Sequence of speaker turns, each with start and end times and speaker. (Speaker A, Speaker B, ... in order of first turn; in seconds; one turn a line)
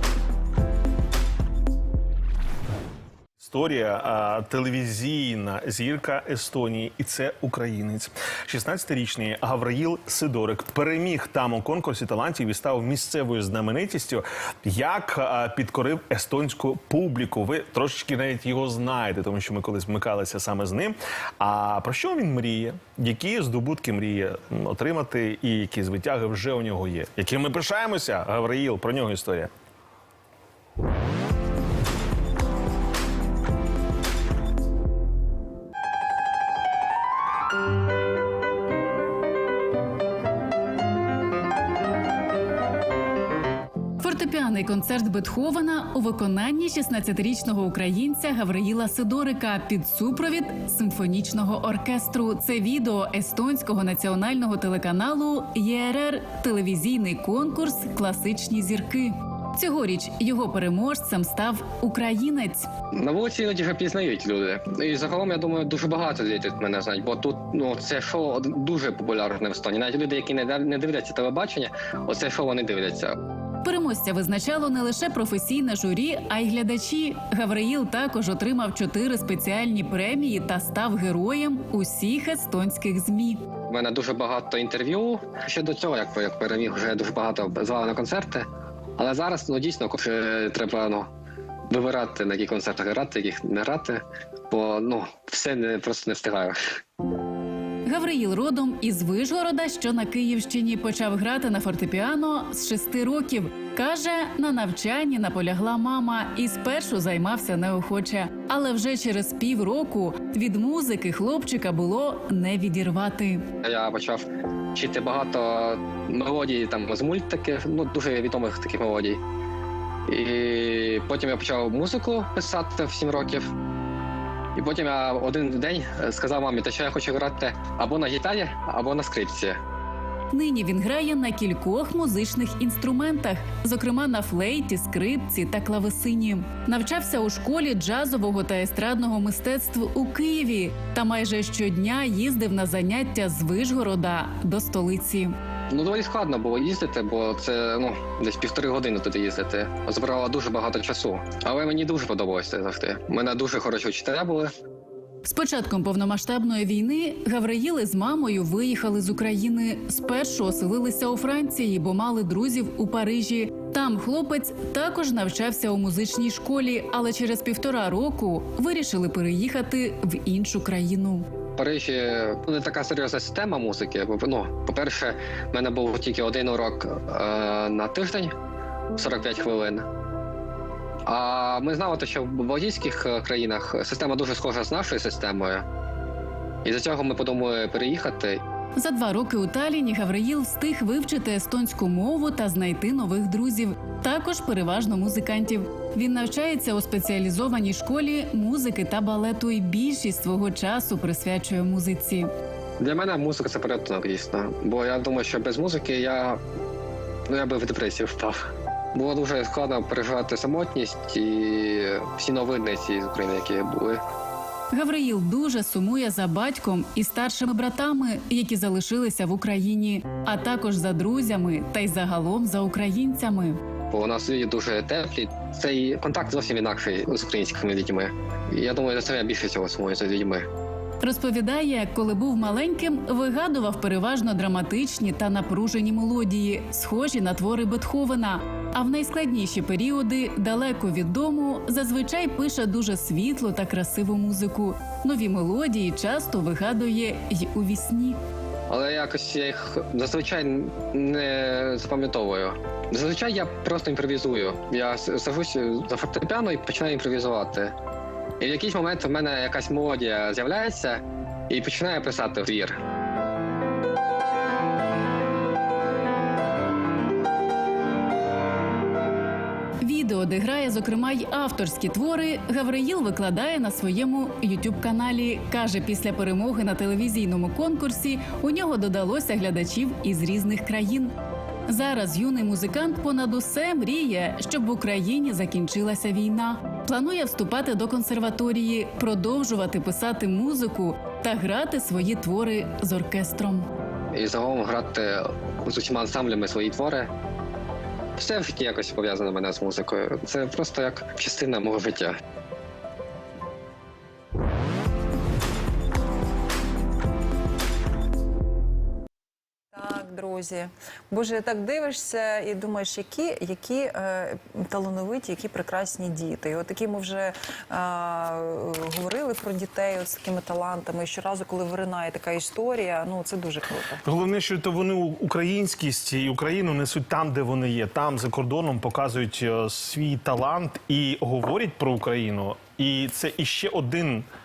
Speaker A: 3.4-29.5
Speaker B: 44.0-62.7
Speaker C: 63.0-73.2
Speaker B: 73.6-83.4
Speaker C: 83.7-91.1
Speaker C: 91.7-96.6
Speaker B: 97.8-113.4
Speaker C: 113.6-119.2
Speaker C: 120.1-123.5
Speaker C: 124.5-129.6
Speaker B: 130.3-145.3
Speaker C: 145.7-154.5
Speaker B: 155.2-171.2
Speaker C: 171.6-178.3
Speaker C: 179.0-179.9
Speaker C: 181.1-185.7
Speaker C: 186.7-188.4
Speaker B: 188.8-202.3
Speaker C: 202.8-206.4
Speaker C: 207.3-208.4
Speaker C: 208.9-214.0
Speaker B: 214.7-223.6
Speaker C: 223.9-230.5
Speaker B: 231.0-248.2
Speaker C: 248.7-257.8
Speaker C: 258.4-262.8
Speaker B: 269.8-281.1
Speaker B: 281.7-293.6
Speaker C: 294.1-297.1
Speaker C: 298.2-302.2
Speaker D: 309.7-324.0
Speaker A: 324.0-334.2